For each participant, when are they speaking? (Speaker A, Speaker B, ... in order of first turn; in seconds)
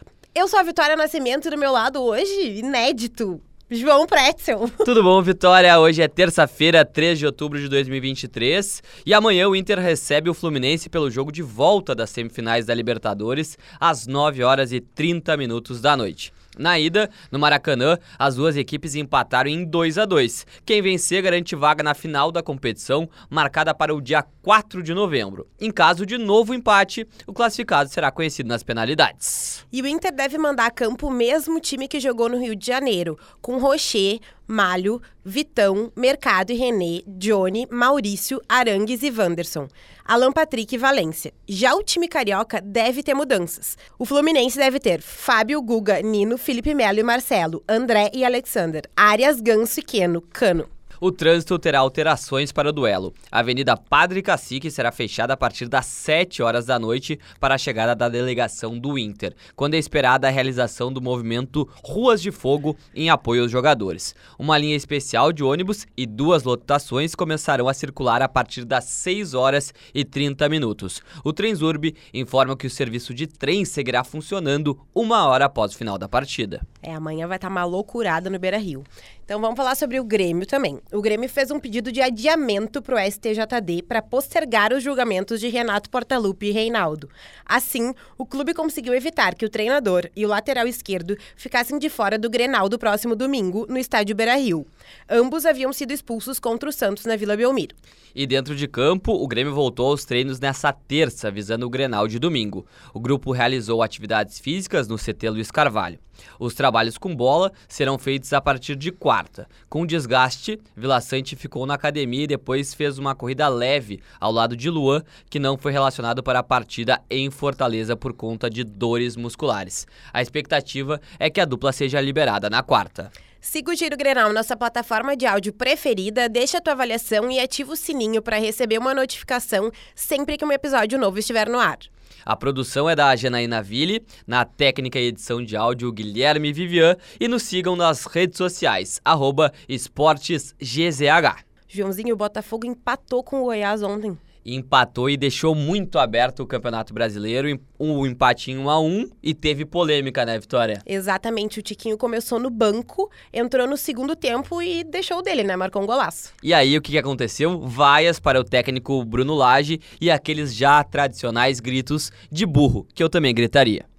Speaker A: 0.3-4.9, 29.7-50.7, 76.8-97.8, 123.4-131.9, 141.7-144.2, 150.9-156.3
Speaker B: 4.8-29.6, 51.0-76.6, 98.2-123.1, 132.3-141.4, 144.4-150.8, 156.4-163.8